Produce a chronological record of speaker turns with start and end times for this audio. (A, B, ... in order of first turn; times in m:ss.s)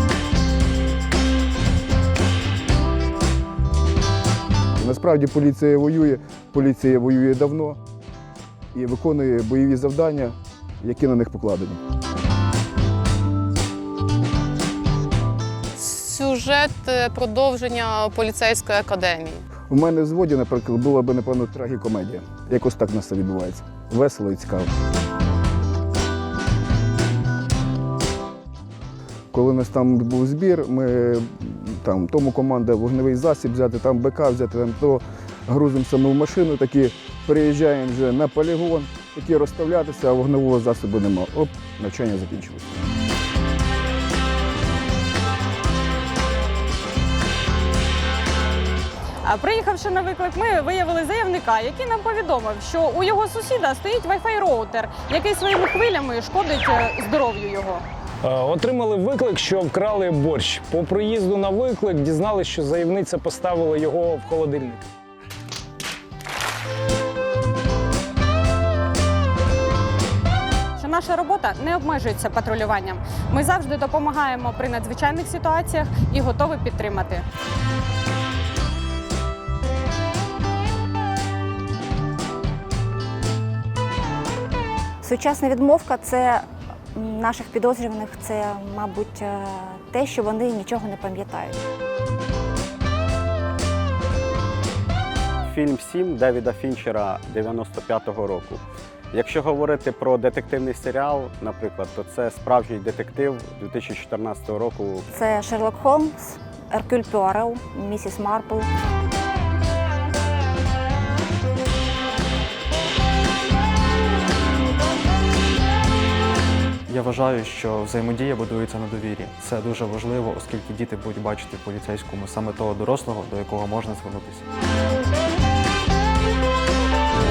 0:04.8-0:07.8 A
0:08.7-0:11.8 A
0:15.7-0:19.4 B
0:19.7-0:24.7 A
0:29.3-0:42.8 A
0:49.2-0:57.8 C
0:58.2-1:04.8 D
1:10.8-1:17.2 C
1:25.0-1:31.6 E
1:35.4-1:38.6 F
1:39.1-1:45.1 F
1:45.1-1:48.7 E
1:56.9-2:04.5 G